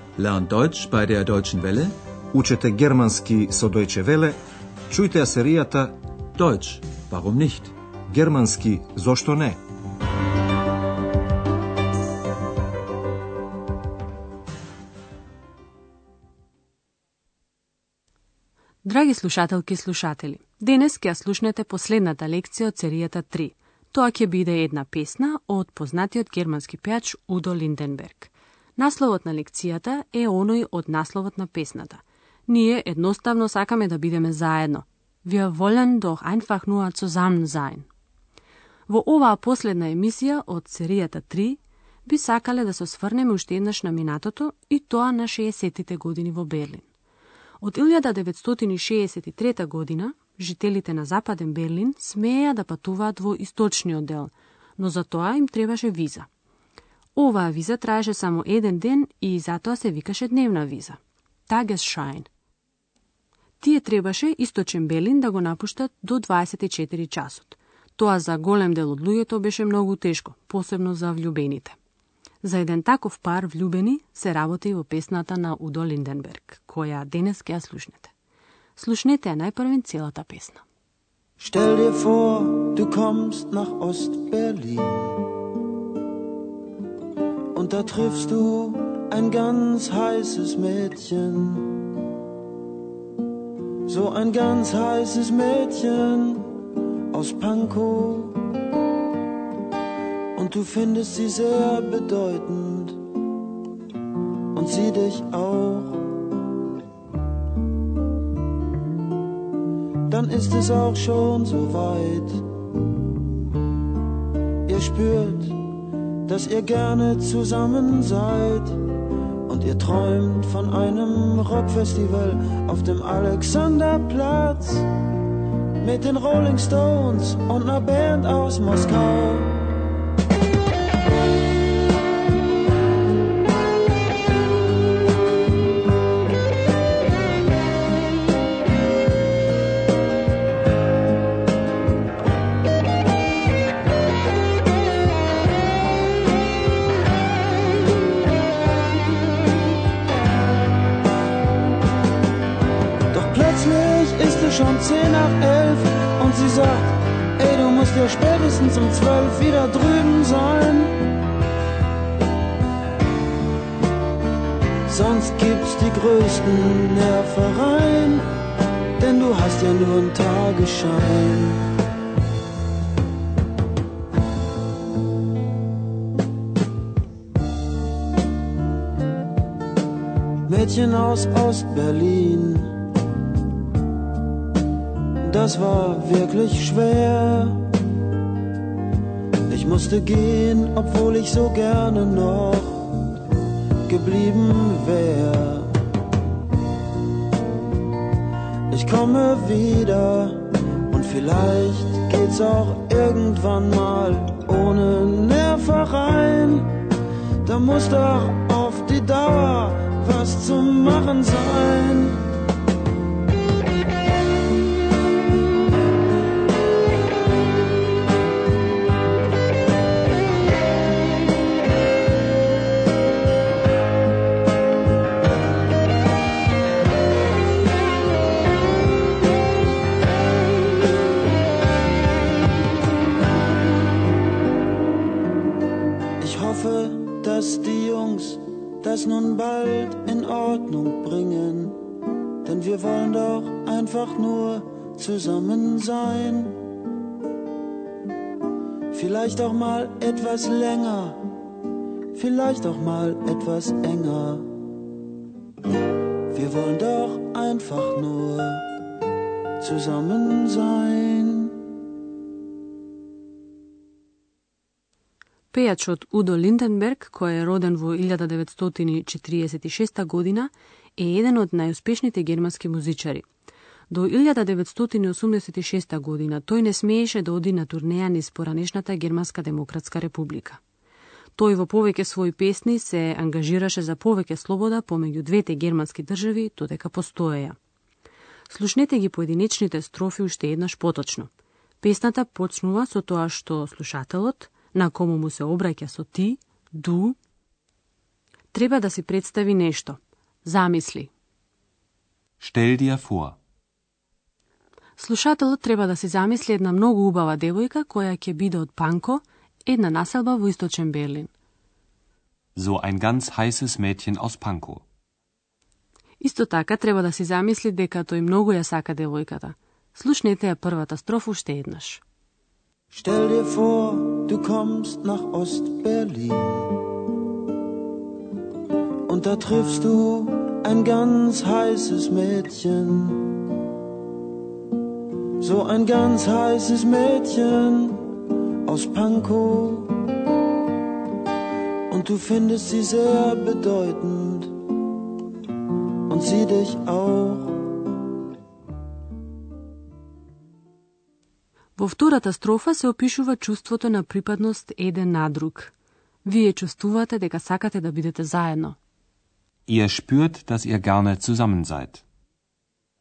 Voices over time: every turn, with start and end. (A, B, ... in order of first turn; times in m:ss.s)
0:00.2-0:02.0 A
0:02.3-0:04.4 B
0:04.9-0:06.0 B
0:06.4-0:07.7 A
0:08.1-0:09.6 B
0:18.8-0:37.8 C
0:38.9-0:46.8 C
0:47.6-0:56.3 C
0:57.2-1:02.3 C
1:03.6-1:11.8 C
1:12.4-1:18.1 C
1:18.8-1:20.6 C
1:21.4-1:25.2 D
1:27.5-1:31.8 D
1:33.9-1:36.5 D
1:37.1-1:38.4 D
1:40.3-1:43.0 D
1:44.5-1:46.2 D
1:50.1-1:52.4 D
1:54.7-1:55.6 D
1:56.2-1:58.8 D
1:59.5-2:04.9 D
2:05.8-2:09.6 D
2:33.1-2:40.9 D
2:44.9-2:48.2 D
2:49.0-2:51.7 D
3:00.5-3:02.8 D
3:05.2-3:07.6 D
3:09.5-3:13.0 D
3:13.8-3:15.7 D
3:18.7-3:26.7 D
3:27.4-3:32.2 D
3:56.2-4:01.8 D
4:02.4-4:06.6 D
4:08.9-4:11.3 D
4:12.1-4:14.5 D
4:16.3-4:18.7 D
4:19.6-4:21.6 D
4:25.5-4:33.2 C
4:33.9-4:40.6 C
4:41.4-4:47.6 C
4:48.5-4:51.3 C
4:51.8-4:57.2 C
4:58.5-5:01.1 C
5:02.4-5:03.4 E
5:05.0-5:11.3 C
5:12.6-5:14.8 E
5:16.2-5:22.0 C
5:22.9-5:26.8 D
5:29.1-5:33.4 D
5:35.4-5:38.1 D
5:38.6-5:40.0 D
5:41.9-5:44.6 D
5:46.1-5:47.8 D
5:51.8-5:55.7 C
5:56.2-5:58.8 C
5:59.7-6:02.0 E